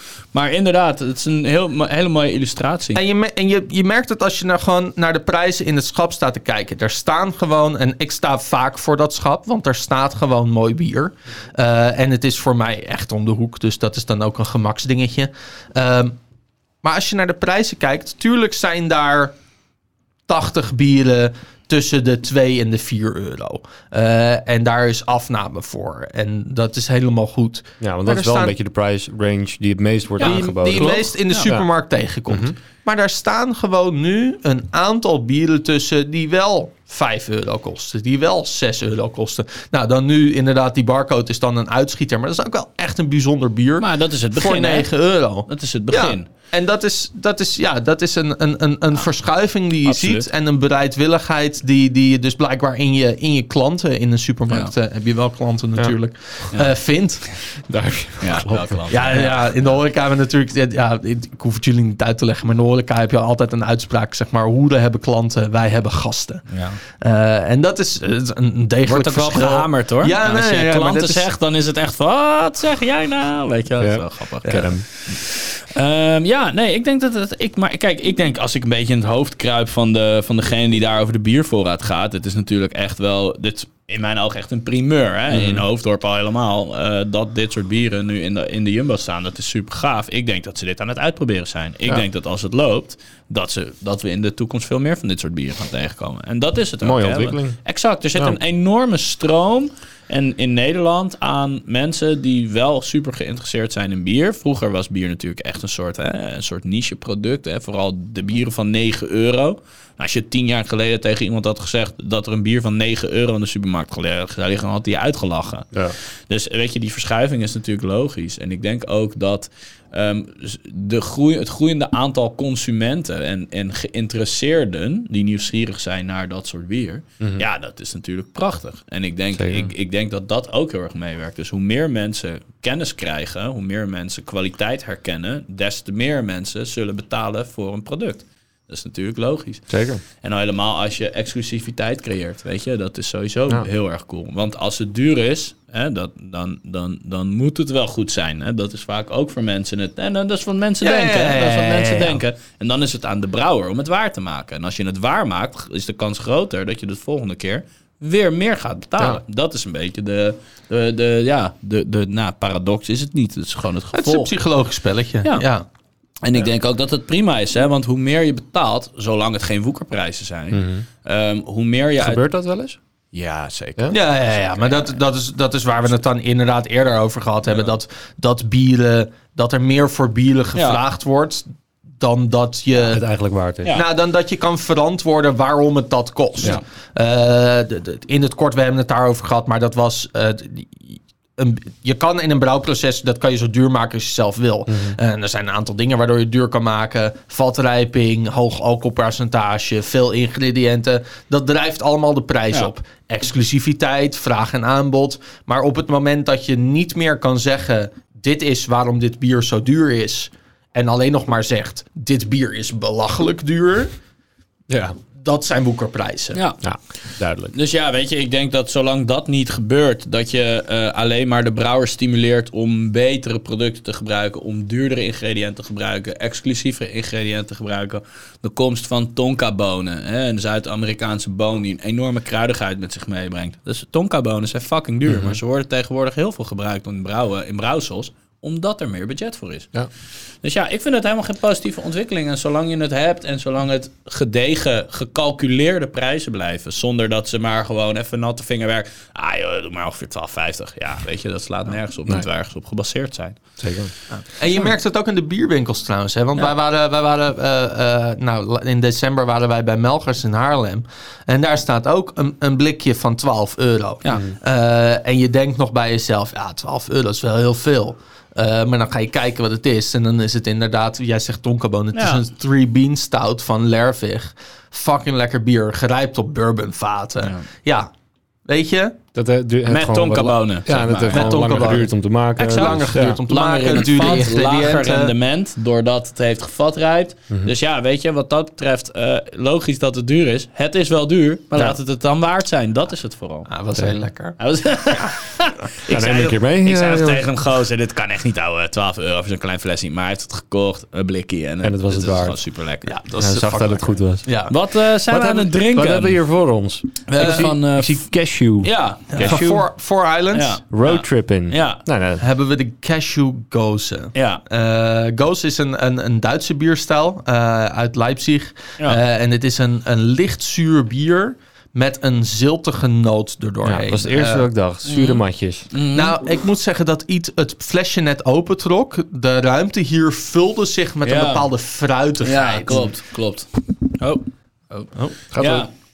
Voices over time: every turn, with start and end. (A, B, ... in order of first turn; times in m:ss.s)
0:00.3-0:03.0 A
0:02.9-0:16.2 B
0:16.8-0:19.3 B
0:20.3-0:28.5 B
0:27.8-0:31.0 C
0:30.2-0:31.6 A
0:30.2-0:57.3 B
0:32.3-0:32.6 C
0:43.8-0:44.9 A
0:45.4-0:46.2 A
0:49.8-0:50.3 A
0:57.7-0:58.9 C
0:58.2-0:59.7 A
0:58.9-1:06.4 B
1:06.5-1:06.8 A
1:07.0-1:11.2 B
1:08.8-1:55.7 A
1:13.8-1:14.8 C
1:14.4-1:14.7 B
1:25.3-1:25.6 C
1:36.8-1:37.6 C
1:56.3-2:44.3 A
2:09.3-2:09.7 C
2:19.7-2:20.0 C
2:30.8-2:32.2 B
2:43.9-2:45.6 B
2:46.2-2:52.2 A
2:50.5-2:50.8 C
2:52.0-2:52.8 C
2:53.1-2:55.0 A
2:53.9-3:03.0 B
2:57.5-2:57.8 A
3:00.5-3:00.8 A
3:02.8-3:03.8 C
3:03.7-3:33.9 B
3:14.7-3:15.0 C
3:34.7-3:35.0 C
3:35.2-3:36.4 B
3:36.3-3:36.6 A
3:36.6-3:37.5 C
3:37.5-3:59.7 A
3:55.0-3:55.4 C
4:00.4-4:13.5 A
4:13.6-4:13.9 C
4:14.1-4:37.9 B
4:31.9-4:32.2 A
4:37.2-4:37.4 A
4:38.4-4:39.0 B
4:39.1-4:43.2 C
4:39.7-4:41.9 A
4:41.1-4:45.1 B
4:42.4-4:53.5 A
4:53.5-4:54.4 B
4:53.8-4:54.0 C
4:54.4-5:02.9 A
4:55.9-4:57.2 C
5:01.6-5:02.4 C
5:02.9-5:04.6 B
5:03.2-5:04.3 C
5:04.5-5:06.2 A
5:05.1-5:05.4 B
5:05.2-5:09.6 C
5:07.1-5:08.1 A
5:07.2-5:07.5 B
5:08.6-5:09.5 A
5:09.1-5:10.6 B
5:10.3-5:11.8 A
5:10.7-5:12.2 C
5:12.2-5:24.5 B
5:14.1-5:14.4 A
5:23.6-5:25.7 C
5:24.8-5:26.2 A
5:25.9-5:32.9 B
5:31.0-5:31.5 A
5:32.2-5:35.7 A
5:34.9-5:35.7 B